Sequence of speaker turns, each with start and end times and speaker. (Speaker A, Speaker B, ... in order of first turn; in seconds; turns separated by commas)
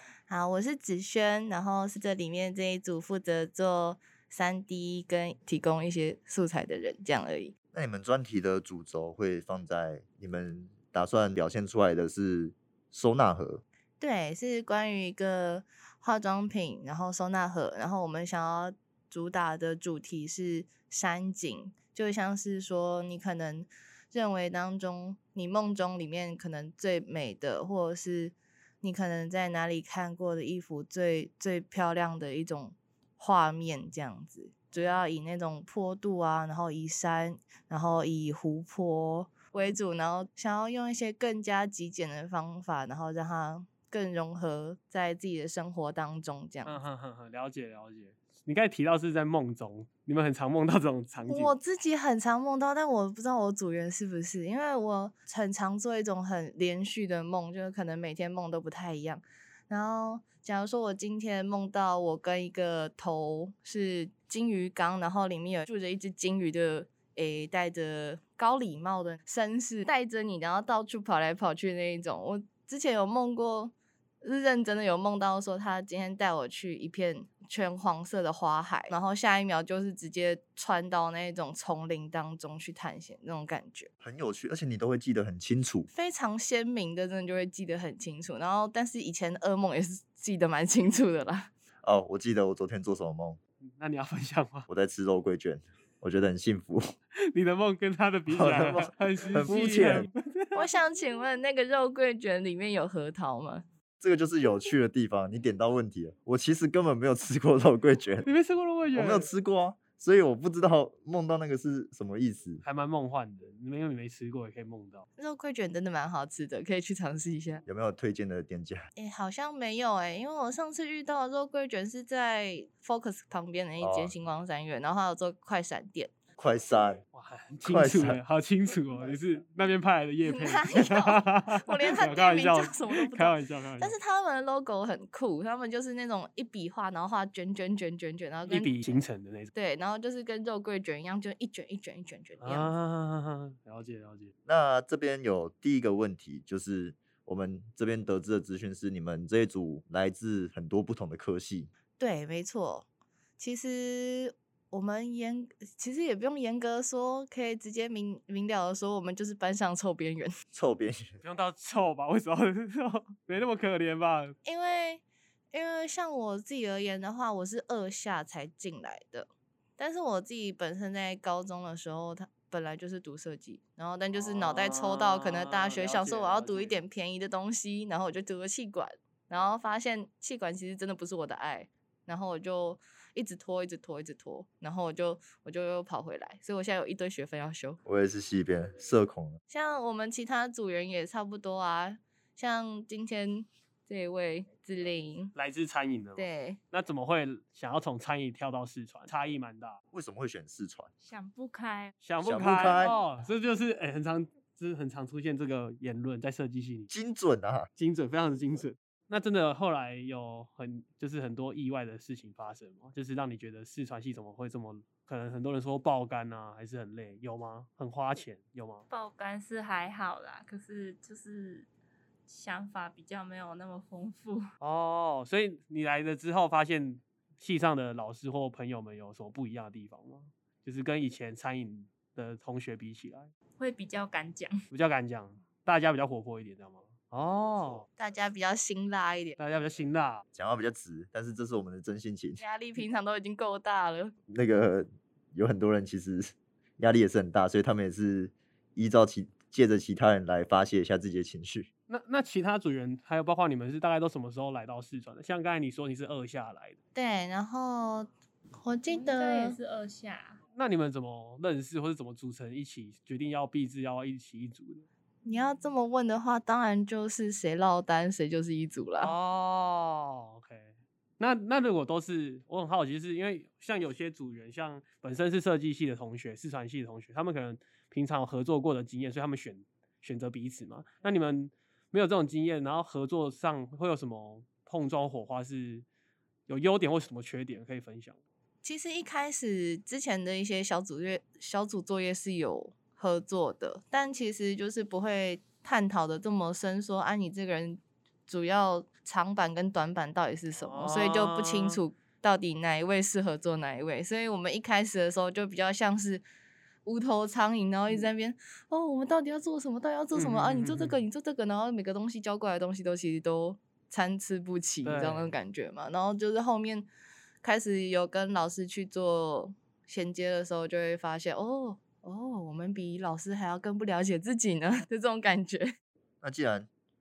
Speaker A: 0.3-7.5, Speaker B: 7.7-13.6, Speaker A: 14.0-46.8, Speaker C: 46.6-51.5, Speaker A: 51.3-83.9, Speaker B: 84.0-85.9, Speaker A: 85.9-91.5, Speaker B: 91.8-93.4, Speaker C: 93.6-94.7, Speaker B: 94.7-96.8, Speaker C: 97.3-100.6, Speaker B: 98.3-100.1, Speaker A: 100.5-103.6, Speaker B: 104.0-108.3, Speaker C: 108.2-109.3, Speaker B: 108.9-112.6, Speaker C: 112.6-115.0, Speaker A: 115.2-117.6, Speaker B: 117.7-118.9, Speaker A: 119.0-126.1, Speaker B: 123.8-124.1, Speaker B: 126.4-127.0, Speaker C: 127.1-134.0, Speaker B: 127.6-128.2, Speaker A: 130.2-138.8, Speaker C: 138.5-139.5, Speaker A: 139.5-142.7, Speaker C: 142.4-144.3, Speaker B: 144.5-151.7, Speaker A: 152.0-152.9, Speaker A: 153.4-160.3, Speaker B: 160.5-161.2, Speaker C: 161.2-164.3, Speaker A: 164.4-187.8, Speaker C: 174.1-176.8, Speaker B: 187.8-189.4, Speaker A: 189.5-195.3, Speaker C: 195.3-199.8, Speaker A: 196.2-196.6, Speaker B: 199.9-200.9, Speaker D: 201.0-201.9, Speaker C: 202.0-206.9, Speaker B: 202.2-203.0, Speaker B: 206.9-207.7, Speaker C: 207.8-218.9, Speaker D: 218.9-221.7, Speaker D: 222.3-224.4, Speaker C: 224.6-233.3, Speaker D: 233.6-234.5, Speaker C: 234.7-237.9, Speaker A: 238.0-239.4, Speaker C: 239.4-240.2, Speaker B: 240.3-242.4, Speaker A: 242.4-244.2, Speaker B: 244.3-251.7, Speaker C: 251.9-256.8, Speaker A: 256.9-259.6, Speaker D: 258.9-260.4, Speaker C: 260.6-264.9, Speaker A: 265.2-269.1, Speaker C: 269.0-285.9, Speaker C: 286.5-288.2, Speaker A: 288.6-306.2, Speaker C: 300.5-301.8, Speaker A: 306.9-316.9, Speaker C: 310.1-311.0, Speaker C: 314.8-315.4, Speaker A: 317.4-325.7, Speaker B: 326.2-326.7